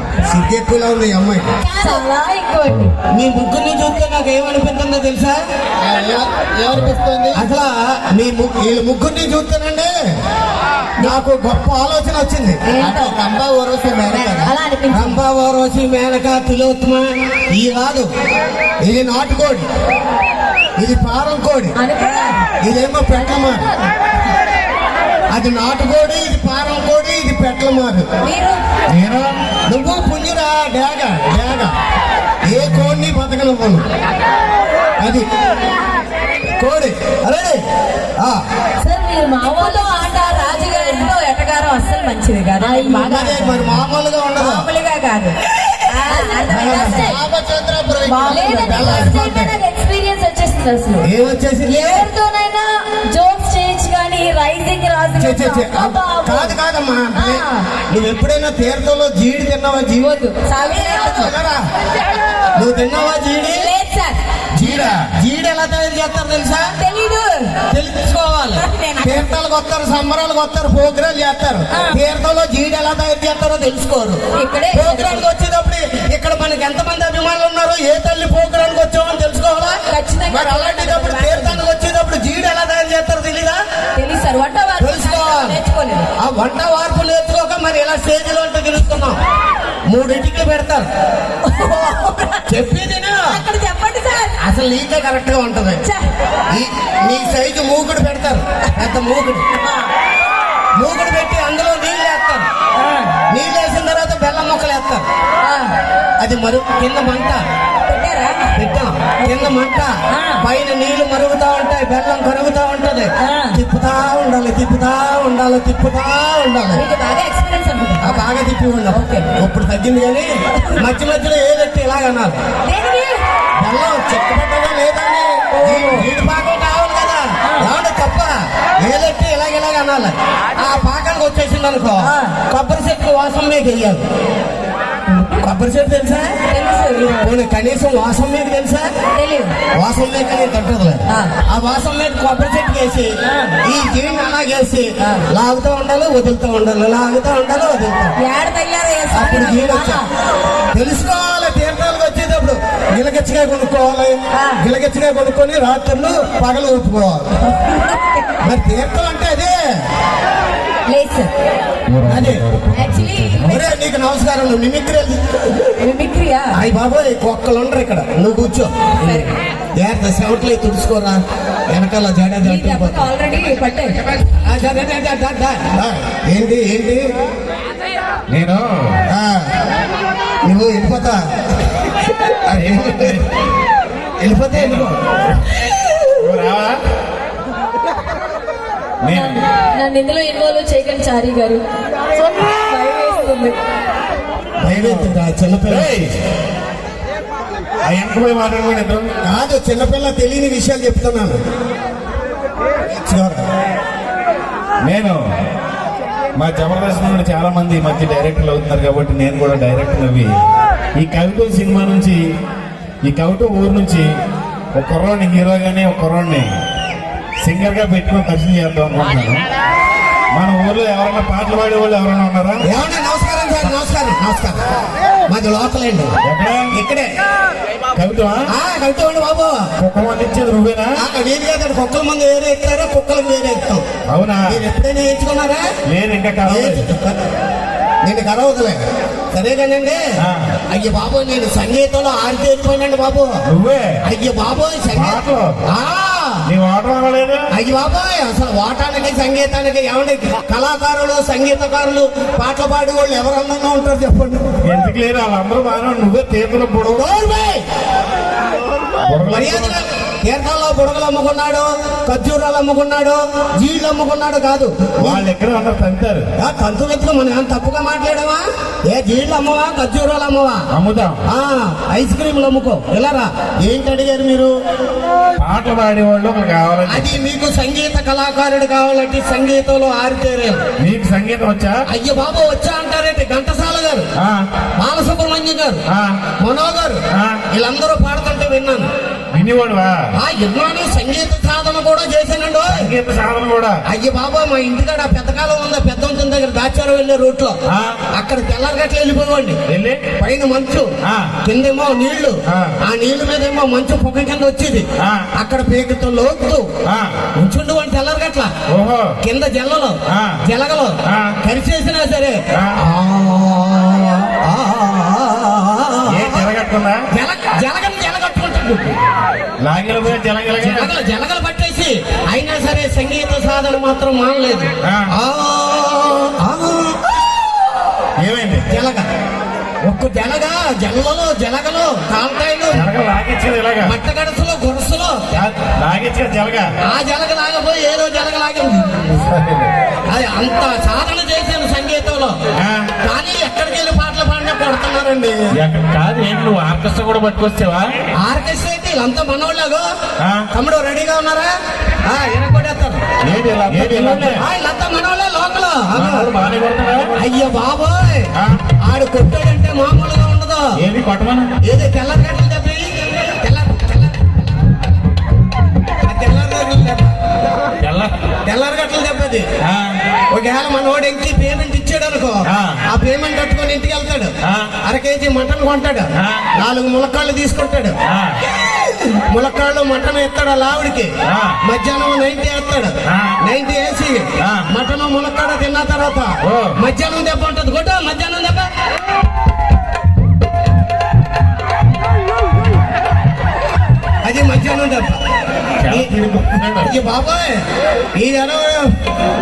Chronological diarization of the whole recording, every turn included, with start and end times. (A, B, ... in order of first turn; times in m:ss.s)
0:00.2-0:01.5 A
0:01.6-0:02.8 B
0:02.7-0:02.9 C
0:03.1-0:05.4 A
0:05.8-0:07.4 D
0:07.3-0:09.9 A
0:11.0-0:12.6 A
0:12.7-0:13.2 B
0:12.8-0:14.6 D
0:14.2-0:15.2 B
0:14.9-0:18.1 A
0:18.8-0:19.7 A
0:20.8-0:21.8 A
0:21.8-0:22.4 B
0:22.6-0:23.7 A
0:25.3-0:28.1 A
0:28.2-0:28.6 B
0:28.9-0:29.4 C
0:29.7-0:31.7 A
0:32.4-0:33.8 A
0:35.0-0:35.3 A
0:36.6-0:37.6 A
0:39.2-0:43.8 B
0:43.0-0:44.7 A
0:44.4-0:45.4 B
0:45.9-0:47.2 B
0:46.5-0:49.5 D
0:46.5-0:47.1 A
0:48.0-0:51.1 B
0:48.5-0:49.5 A
0:51.0-0:52.1 A
0:51.6-0:56.5 B
0:55.2-1:01.6 A
0:57.2-0:57.6 B
1:00.0-1:01.3 B
1:02.6-1:03.7 A
1:03.5-1:04.2 B
1:04.5-1:06.7 A
1:04.6-1:05.0 C
1:06.8-1:07.6 B
1:07.7-1:19.8 A
1:08.6-1:09.3 B
1:14.3-1:15.2 B
1:19.9-1:21.6 B
1:20.3-1:23.6 A
1:24.0-1:26.1 B
1:24.8-1:25.6 A
1:26.2-1:29.2 A
1:29.9-1:30.9 A
1:31.4-1:32.4 B
1:32.5-1:33.4 A
1:33.3-1:34.4 B
1:34.4-1:35.8 A
1:35.8-1:36.1 B
1:36.5-1:39.4 A
1:40.8-1:42.5 A
1:42.8-1:43.1 B
1:43.3-1:45.0 A
1:45.4-1:45.8 B
1:46.2-1:47.4 A
1:47.9-1:48.5 B
1:48.6-1:56.8 A
1:49.2-1:49.5 B
1:50.1-1:50.4 B
1:53.2-1:53.6 B
1:56.7-1:58.3 B
1:58.0-2:02.4 A
1:58.9-1:59.3 B
2:02.6-2:03.2 B
2:03.6-2:14.0 A
2:05.6-2:06.1 B
2:12.0-2:12.3 B
2:15.1-2:16.4 A
2:16.5-2:17.3 B
2:17.2-2:18.9 A
2:19.1-2:19.6 B
2:19.7-2:23.1 A
2:21.1-2:21.3 B
2:23.2-2:23.6 B
2:23.6-2:28.2 A
2:28.2-2:30.1 B
2:29.1-2:30.0 A
2:30.7-2:37.3 A
2:34.3-2:34.6 B
2:37.4-2:38.4 B
2:38.4-2:39.8 A
2:40.9-2:41.3 B
2:41.9-2:43.6 C
2:42.0-2:42.4 A
2:42.7-2:43.6 B
2:43.5-2:45.2 A
2:45.8-2:46.5 B
2:46.5-2:49.2 A
2:49.0-2:49.3 B
2:49.8-2:53.0 A
2:52.4-2:54.0 B
2:54.4-2:57.0 A
2:58.3-2:59.0 C
2:59.1-2:59.5 A
3:00.4-3:01.2 A
3:02.3-3:03.2 A
3:02.5-3:03.2 C
3:04.2-3:05.0 A
3:04.5-3:04.9 C
3:06.2-3:06.8 C
3:09.0-3:09.4 C
3:09.1-3:11.6 B
3:12.2-3:13.6 B
3:14.6-3:15.9 A
3:14.7-3:15.2 C
3:15.7-3:16.1 C
3:17.8-3:19.1 C
3:19.2-3:21.4 A
3:22.8-3:23.4 A
3:24.8-3:25.2 C
3:26.4-3:30.3 C
3:31.0-3:32.2 C
3:33.0-3:34.1 C
3:34.7-3:36.5 C
3:37.4-3:39.4 C
3:40.3-3:42.6 C
3:42.6-3:44.6 A
3:45.3-3:46.2 A
3:46.2-3:46.7 C
3:46.7-3:47.1 A
3:47.9-3:48.5 C
3:48.5-3:49.7 A
3:49.8-3:51.0 C
3:51.0-3:53.8 A
3:54.1-3:54.6 C
3:54.5-3:55.6 A
3:55.9-3:56.8 C
3:56.4-3:57.2 A
3:58.0-3:58.8 A
3:59.3-4:00.0 A
4:00.2-4:00.5 C
4:00.7-4:03.4 A
4:03.5-4:04.0 C
4:04.0-4:06.4 A
4:04.9-4:05.5 C
4:06.5-4:07.5 C
4:07.5-4:14.5 A
4:14.7-4:17.0 C
4:16.8-4:17.6 A
4:19.0-4:19.8 C
4:19.3-4:25.2 A
4:25.0-4:26.2 C
4:26.4-4:30.7 A
4:30.7-4:31.2 C
4:31.3-4:34.5 A
4:35.4-4:37.2 C
4:36.9-4:40.6 A
4:40.8-4:41.8 C
4:41.9-4:44.1 A
4:44.2-4:44.4 C
4:44.8-4:45.8 A
4:45.9-4:46.2 C
4:46.4-4:48.9 A
4:47.1-4:47.4 C
4:49.3-4:50.0 C
4:50.2-4:52.9 A
4:52.7-4:53.8 C
4:53.9-4:57.6 A
4:57.7-4:58.0 C
4:58.2-4:59.6 A
4:59.7-5:00.1 C
5:00.2-5:00.9 A
5:01.0-5:01.3 C
5:01.4-5:06.7 A
5:02.5-5:02.7 C
5:05.0-5:05.3 C
5:06.9-5:07.2 C
5:07.4-5:08.5 A
5:08.7-5:09.1 C
5:09.2-5:16.5 A
5:10.1-5:10.4 C
5:11.0-5:11.4 C
5:16.1-5:17.0 C
5:17.1-5:19.0 A
5:19.6-5:20.9 C
5:20.6-5:27.0 A
5:24.8-5:25.1 C
5:28.2-5:28.7 C
5:28.7-5:29.1 A
5:29.8-5:32.9 A
5:32.7-5:34.0 C
5:33.8-5:35.2 A
5:35.4-5:36.6 C
5:36.8-5:39.3 A
5:39.3-5:39.7 C
5:40.1-5:42.4 A
5:42.6-5:42.9 C
5:43.0-5:45.4 A
5:45.6-5:47.9 C
5:48.2-5:49.8 A
5:50.5-5:53.0 A
5:53.2-5:54.4 C
5:53.7-5:56.3 A
5:55.9-5:57.2 C
5:57.2-5:58.3 A
5:58.4-5:58.6 C
5:58.8-6:00.7 A
6:00.8-6:01.5 C
6:01.6-6:04.7 A
6:06.0-6:07.1 A
6:07.8-6:08.1 C
6:08.4-6:09.4 A
6:09.6-6:10.0 C
6:10.3-6:18.0 A
6:12.5-6:12.8 C
6:14.4-6:14.7 C
6:16.2-6:16.4 C
6:18.1-6:18.4 C
6:19.2-6:21.1 A
6:21.3-6:21.6 C
6:21.6-6:28.7 A
6:23.1-6:23.4 C
6:24.4-6:24.7 C
6:26.4-6:26.8 C
6:34.2-6:35.2 A
6:35.8-6:36.9 C
6:35.9-6:36.1 A
6:36.8-6:37.6 A
6:38.2-6:38.9 A